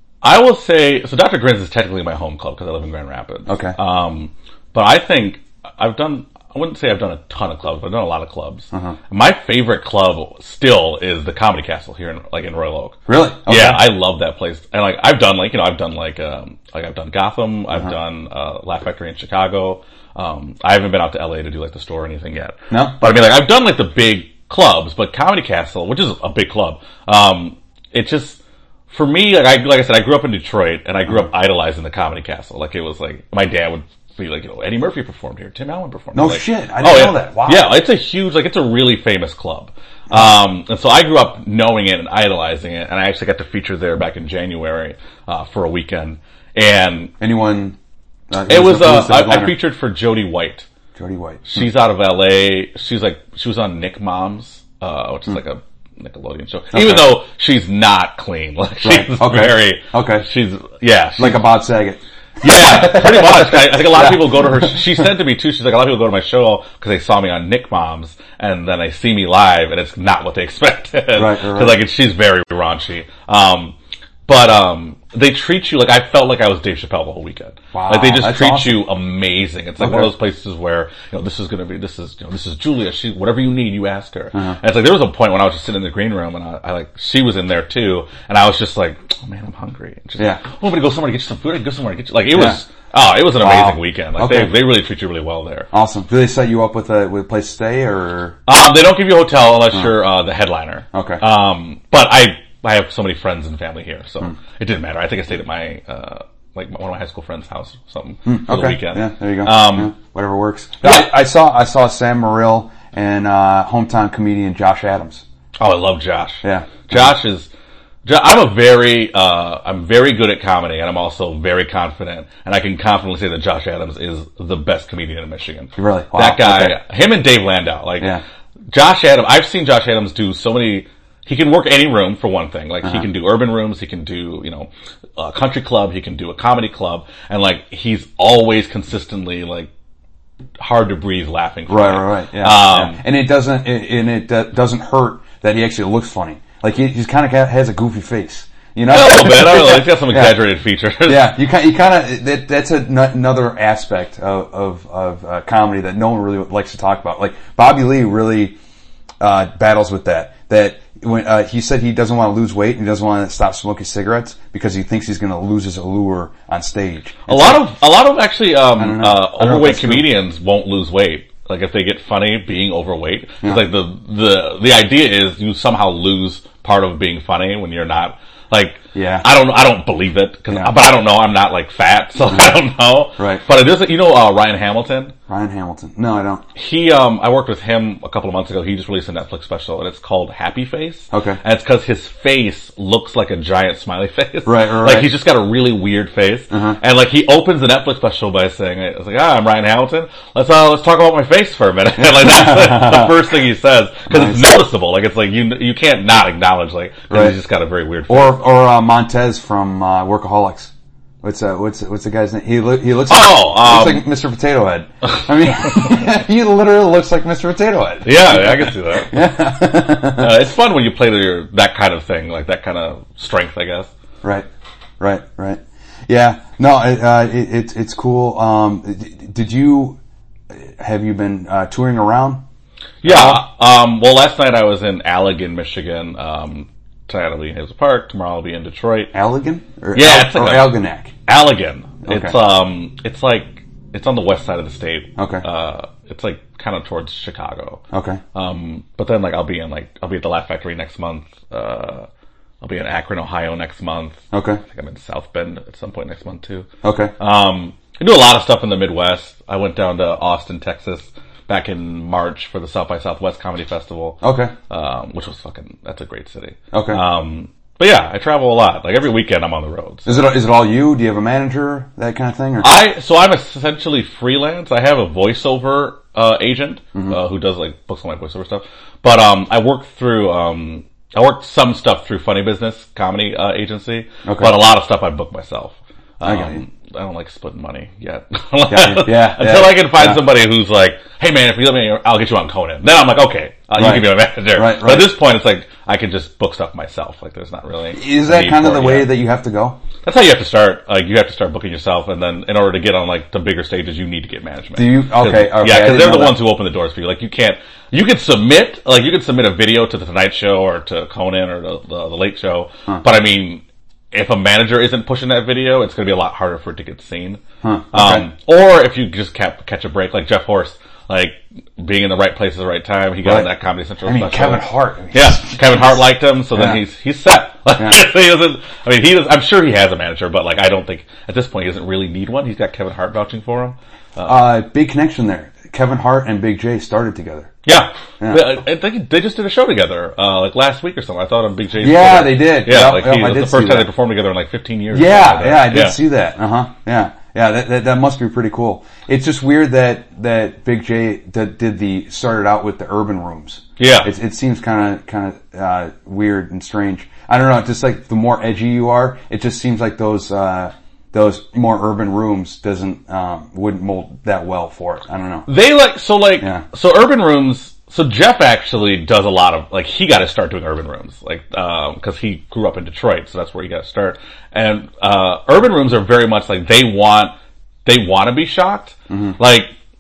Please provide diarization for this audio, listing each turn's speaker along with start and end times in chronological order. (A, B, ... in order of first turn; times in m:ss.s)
0:00.2-0:47.1 A
0:03.5-0:03.8 B
0:08.7-0:09.0 B
0:13.1-0:13.9 B
0:22.7-0:23.0 B
0:36.1-0:37.8 B
0:47.2-0:47.8 B
0:48.3-0:49.6 B
0:48.5-0:50.7 A
0:50.9-0:51.4 B
0:51.4-1:01.5 A
0:56.7-0:57.2 B
0:58.8-1:00.3 B
1:01.2-1:04.7 B
1:02.4-1:13.8 A
1:11.1-1:11.8 B
1:14.3-1:35.7 A
1:17.7-1:18.8 B
1:19.8-1:20.1 B
1:32.3-1:32.6 B
1:33.4-1:34.5 B
1:35.7-1:38.4 B
1:38.4-1:49.9 A
1:40.9-1:41.2 B
1:48.3-1:55.2 B
1:50.8-1:51.1 A
1:55.6-1:57.5 A
1:56.4-1:57.0 B
1:58.0-2:08.2 A
2:05.8-2:06.8 B
2:08.7-2:19.7 A
2:20.6-2:23.0 A
2:21.7-2:30.4 B
2:28.9-2:31.4 A
2:31.1-2:38.6 B
2:39.2-2:47.7 B
2:47.3-3:05.1 A
2:48.8-2:50.1 B
2:58.9-2:59.3 B
3:03.2-3:03.4 B
3:05.3-3:06.4 B
3:06.6-3:28.4 A
3:11.1-3:11.4 B
3:14.4-3:15.1 B
3:16.5-3:16.8 B
3:22.0-3:23.1 B
3:24.1-3:24.6 B
3:27.1-3:27.4 B
3:28.1-3:40.4 B
3:33.1-3:34.1 A
3:38.0-3:39.2 A
3:40.1-3:43.9 A
3:45.0-3:50.0 B
3:50.5-3:52.4 B
3:53.0-3:59.1 A
3:53.0-3:53.4 B
3:59.1-4:01.1 B
3:59.9-4:07.8 A
4:02.0-4:02.4 B
4:05.2-4:05.4 B
4:07.9-4:08.2 B
4:08.3-4:12.1 A
4:12.6-4:16.7 A
4:14.3-4:14.6 B
4:16.8-4:17.1 B
4:17.2-4:30.3 A
4:24.2-4:24.5 B
4:26.7-4:27.0 B
4:30.1-4:32.8 B
4:32.6-4:59.1 A
4:44.2-4:44.6 B
4:46.2-4:46.6 B
4:48.7-4:50.2 B
4:53.8-4:55.1 B
4:57.9-4:59.8 B
5:00.0-5:34.4 A
5:04.8-5:06.4 B
5:17.6-5:18.3 B
5:23.2-5:23.5 B
5:24.0-5:26.0 B
5:26.6-5:26.8 B
5:34.2-5:37.6 B
5:37.6-5:46.0 A
5:41.8-5:43.9 B
5:44.9-6:05.5 B
5:53.8-5:54.1 A
6:05.5-6:19.7 A
6:19.1-6:19.4 B